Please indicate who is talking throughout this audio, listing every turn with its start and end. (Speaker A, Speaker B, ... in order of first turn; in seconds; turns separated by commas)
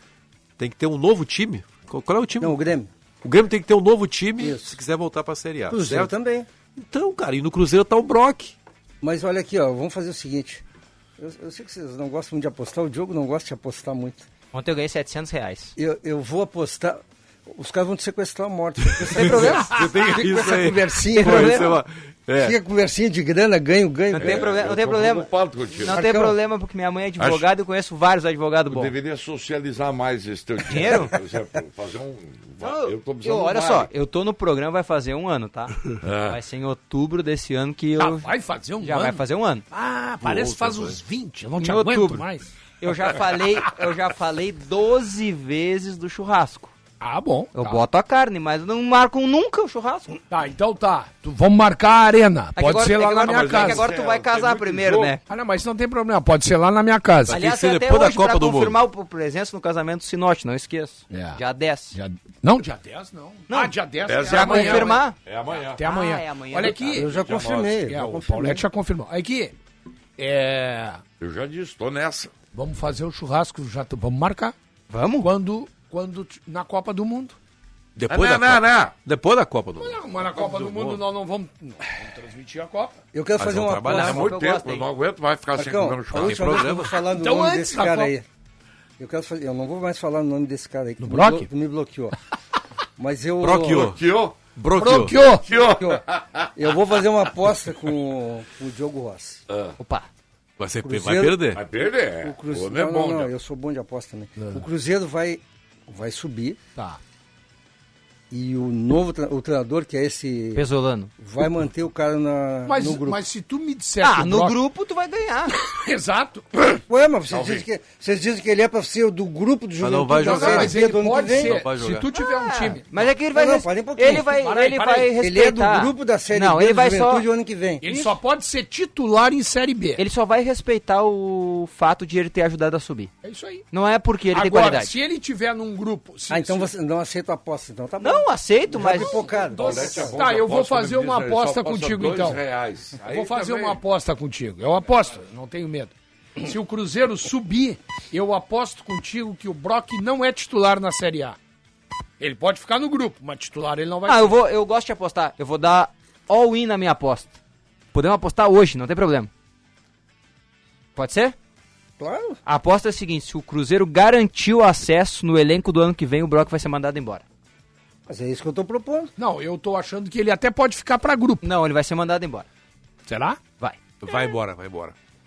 Speaker A: 0.6-2.6, Speaker B: 2.4-2.9, Speaker A: 3.2-6.1, Speaker B: 4.4-4.8, Speaker B: 5.7-6.5, Speaker A: 6.8-8.6, Speaker B: 9.0-10.6, Speaker B: 11.2-14.3, Speaker C: 14.5-15.8, Speaker B: 15.8-21.8, Speaker C: 19.1-19.7, Speaker A: 19.1-22.6, Speaker C: 21.2-21.6, Speaker B: 22.4-24.5, Speaker C: 24.1-28.9, Speaker D: 24.2-26.0, Speaker B: 25.9-26.4, Speaker D: 27.2-27.5, Speaker D: 28.7-33.9, Speaker C: 30.7-31.1, Speaker C: 32.6-38.3, Speaker D: 36.0-36.4, Speaker E: 38.0-42.6, Speaker C: 38.8-39.6, Speaker A: 40.2-41.0, Speaker C: 41.6-42.3, Speaker C: 42.8-46.7, Speaker E: 47.0-47.8, Speaker C: 47.5-50.2, Speaker E: 50.3-53.9, Speaker C: 52.6-55.2, Speaker D: 53.1-55.2, Speaker E: 55.3-57.4, Speaker A: 57.3-58.8, Speaker C: 57.3-62.0, Speaker E: 61.1-61.4, Speaker E: 61.9-65.1, Speaker C: 63.5-67.1, Speaker D: 64.1-65.8, Speaker E: 65.8-67.2, Speaker B: 66.7-68.6, Speaker D: 66.9-67.8, Speaker E: 67.8-69.5, Speaker E: 70.2-71.0, Speaker D: 71.2-72.3, Speaker E: 72.5-74.5, Speaker C: 74.9-75.3, Speaker E: 75.2-77.4, Speaker A: 78.0-81.0, Speaker D: 78.1-79.0, Speaker E: 79.8-83.0, Speaker B: 83.1-84.2, Speaker A: 83.4-84.3, Speaker C: 83.9-84.9, Speaker D: 83.9-86.7, Speaker B: 85.5-88.2, Speaker A: 86.1-87.0, Speaker E: 87.0-88.1, Speaker B: 89.0-92.2, Speaker E: 91.0-91.5, Speaker B: 93.0-94.0, Speaker A: 93.4-94.0, Speaker D: 93.7-94.5, Speaker A: 94.5-95.2, Speaker E: 94.8-95.5, Speaker D: 95.4-96.5, Speaker B: 95.6-96.0, Speaker B: 96.5-99.4, Speaker D: 99.5-99.8, Speaker C: 99.8-100.1, Speaker A: 100.6-101.6, Speaker B: 100.8-101.5, Speaker D: 101.5-103.3, Speaker B: 102.2-106.6, Speaker B: 108.3-110.7, Speaker C: 110.5-111.1, Speaker B: 111.2-113.2, Speaker E: 112.7-114.6, Speaker C: 114.0-115.5, Speaker E: 115.5-116.6, Speaker B: 116.9-121.7, Speaker D: 117.3-117.7, Speaker A: 119.8-122.1, Speaker E: 120.2-122.9, Speaker C: 122.2-127.3, Speaker B: 123.3-124.4, Speaker E: 124.1-125.2, Speaker B: 125.2-127.9, Speaker E: 127.8-130.0, Speaker C: 130.0-133.1, Speaker E: 133.2-133.7, Speaker C: 133.7-134.9, Speaker E: 134.3-136.7, Speaker B: 136.3-140.2, Speaker C: 138.0-139.2, Speaker E: 138.8-142.4, Speaker D: 139.5-143.8, Speaker E: 143.0-151.4, Speaker E: 152.2-154.3, Speaker C: 154.1-157.4, Speaker C: 157.9-159.3, Speaker C: 161.0-161.4, Speaker B: 162.0-162.4, Speaker C: 162.4-167.2, Speaker B: 168.1-169.1, Speaker E: 169.2-171.4, Speaker C: 171.4-172.5, Speaker E: 173.1-173.4, Speaker A: 174.0-174.9